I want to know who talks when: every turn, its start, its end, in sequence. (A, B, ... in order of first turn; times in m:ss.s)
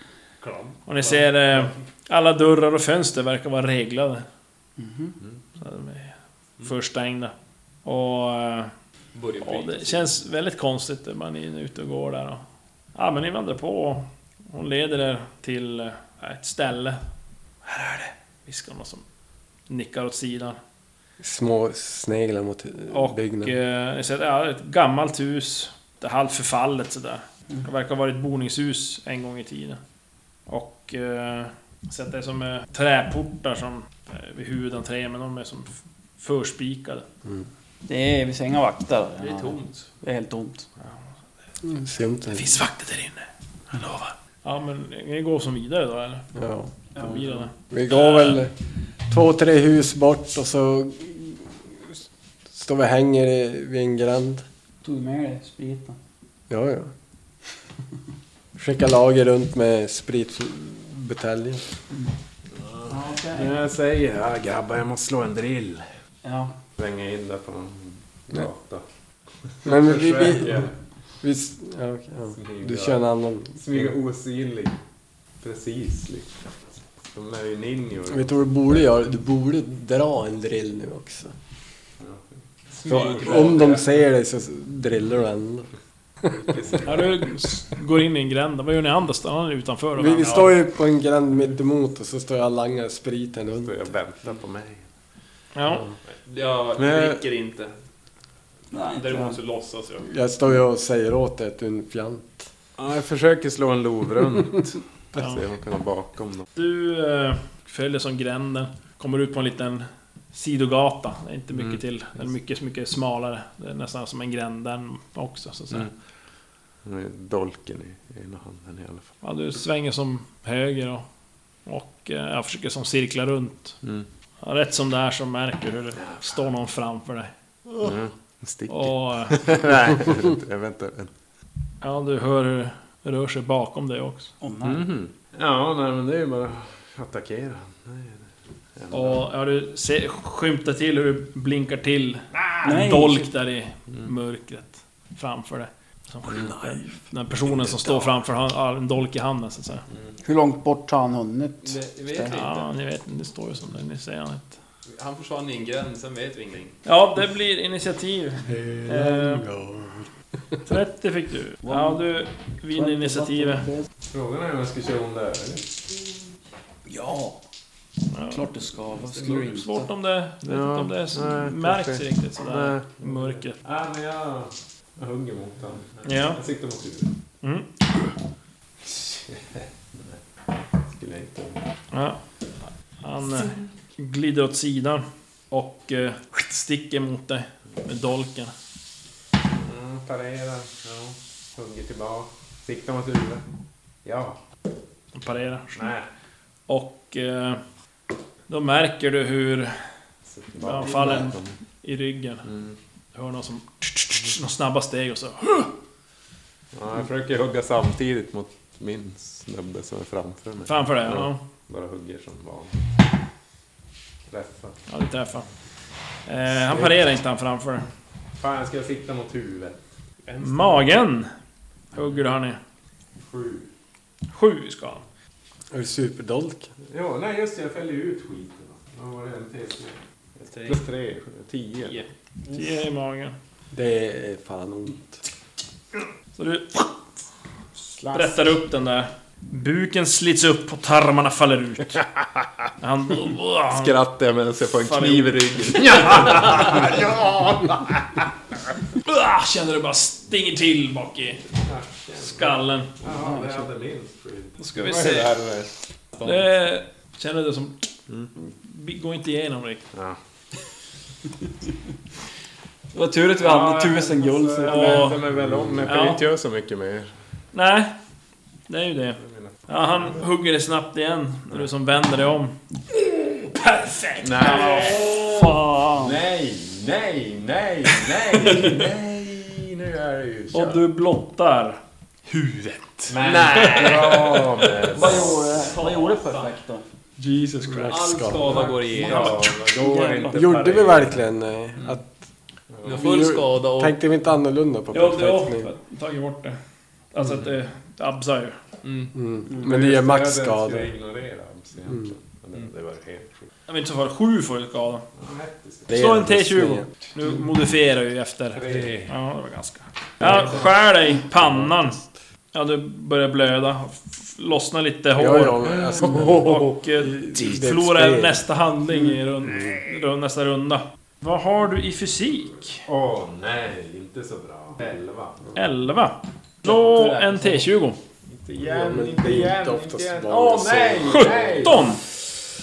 0:00.4-0:01.1 A
0:00.8-0:04.2 B
0:04.8-0:05.1 C
0:05.6-0:08.7 B
0:09.1-0:10.1 A
0:09.4-0:12.4 B
0:12.9-0:17.0 B
0:17.6-0:19.0 B
0:19.7-0:20.6 B
0:21.2-0:23.6 D
0:22.9-0:29.8 B
0:30.5-0:37.0 B
0:37.9-0:40.7 C
0:39.2-0:39.9 A
0:41.6-0:42.5 D
0:42.3-0:46.2 B
0:46.3-0:46.7 D
0:47.0-0:48.4 B
0:47.7-0:48.5 D
0:49.1-0:54.4 D
0:54.8-0:56.0 C
0:56.5-0:56.9 D
0:58.6-1:01.6 D
1:02.6-1:05.8 E
1:02.9-1:03.5 C
1:06.2-1:06.5 C
1:06.8-1:08.8 E
1:09.4-1:10.7 E
1:09.6-1:10.7 D
1:11.2-1:13.9 D
1:12.4-1:13.0 E
1:13.6-1:14.8 E
1:15.4-1:18.3 E
1:18.1-1:21.3 D
1:22.0-1:23.8 E
1:22.8-1:23.8 A
1:22.9-1:25.7 D
1:26.2-1:26.8 D
1:26.5-1:27.1 E
1:26.8-1:30.6 B
1:30.0-1:33.7 D
1:33.6-1:34.8 E
1:35.5-1:35.9 B
1:36.1-1:37.7 A
1:36.8-1:37.2 E
1:38.7-1:39.4 C
1:38.8-1:40.1 A
1:40.0-1:42.5 D
1:42.8-1:46.5 E
1:45.2-1:45.4 B
1:46.6-1:55.9 B
1:56.8-1:59.1 E
1:59.2-2:01.0 B
2:01.6-2:03.8 B
2:04.4-2:07.3 B
2:06.0-2:06.4 E
2:07.8-2:11.1 E
2:08.7-2:09.6 B
2:11.8-2:14.3 B
2:14.4-2:14.8 C
2:14.6-2:18.2 E
2:18.8-2:19.2 E
2:18.9-2:29.8 B
2:22.6-2:23.3 C
2:30.2-2:32.4 C
2:31.6-2:32.7 A
2:32.3-2:34.5 B
2:34.9-2:36.8 A
2:36.8-2:39.4 B
2:38.4-2:40.1 D
2:40.6-2:43.7 B
2:41.6-2:42.0 C
2:42.7-2:43.8 C
2:44.1-2:45.9 E
2:46.8-2:47.4 C
2:48.1-2:48.5 B
2:48.3-2:49.9 C
2:49.1-2:53.6 B
2:50.4-2:57.1 E
2:56.0-2:56.4 B
2:57.4-2:57.7 B
2:58.8-3:00.2 E
3:00.8-3:01.6 E
3:01.9-3:02.2 B
3:03.0-3:08.5 B
3:09.5-3:13.4 E
3:14.0-3:14.4 E
3:15.1-3:15.9 B
3:15.7-3:16.1 E
3:16.7-3:17.6 B
3:18.5-3:19.8 B
3:20.2-3:21.6 E
3:20.6-3:22.5 B
3:23.1-3:25.7 B
3:26.7-3:32.8 E
3:30.6-3:31.4 B
3:34.3-3:34.8 E
3:34.9-3:35.5 B
3:36.2-3:37.8 B
3:38.4-3:39.8 E
3:40.2-3:41.0 A
3:40.4-3:41.3 B
3:41.9-3:42.6 B
3:43.2-3:43.7 E
3:44.3-3:45.0 B
3:45.7-3:46.7 D
3:46.9-3:52.0 E
3:50.5-3:50.8 A
3:52.5-3:53.4 B
3:53.7-3:55.2 D
3:56.3-3:57.0 B
3:57.8-3:58.4 E
3:58.1-4:02.0 B
4:02.8-4:04.0 B
4:03.7-4:08.2 E
4:04.8-4:06.4 B
4:09.0-4:11.4 B
4:11.5-4:15.7 E
4:12.2-4:12.9 B
4:13.2-4:13.6 C
4:14.6-4:15.4 B
4:16.2-4:17.8 B
4:18.4-4:19.8 B
4:19.9-4:20.2 E
4:22.9-4:25.1 C
4:23.4-4:27.1 E
4:24.6-4:25.2 B
4:25.8-4:26.2 B
4:27.5-4:27.9 B
4:28.7-4:36.0 B
4:29.2-4:30.2 E
4:34.2-4:35.3 E
4:35.3-4:36.1 C
4:35.9-4:40.8 E
4:40.5-4:45.2 B
4:43.1-4:45.6 E
4:43.2-4:44.4 A
4:44.9-4:46.8 C
4:45.0-4:46.4 A
4:47.2-4:48.0 B
4:47.6-4:48.7 D
4:47.9-4:49.5 A
4:48.5-4:49.4 B
4:48.9-4:50.4 C
4:48.9-4:51.2 E
4:50.3-4:52.1 D
4:52.7-4:53.0 E
4:52.8-4:54.0 A
4:52.9-4:55.7 D
4:54.9-4:56.6 B
4:57.1-4:58.6 B
4:58.8-4:59.1 A
4:59.1-5:00.9 D
4:59.5-5:03.5 E
5:03.7-5:05.0 B
5:05.2-5:06.0 E
5:05.9-5:06.9 D
5:05.9-5:12.0 B
5:08.5-5:09.1 E
5:10.2-5:10.6 E
5:12.5-5:22.8 B
5:15.1-5:18.4 D
5:16.1-5:16.4 E
5:22.9-5:25.5 E
5:25.5-5:28.0 B
5:27.0-5:27.4 A
5:28.3-5:32.0 E
5:28.6-5:31.6 D
5:31.1-5:32.0 B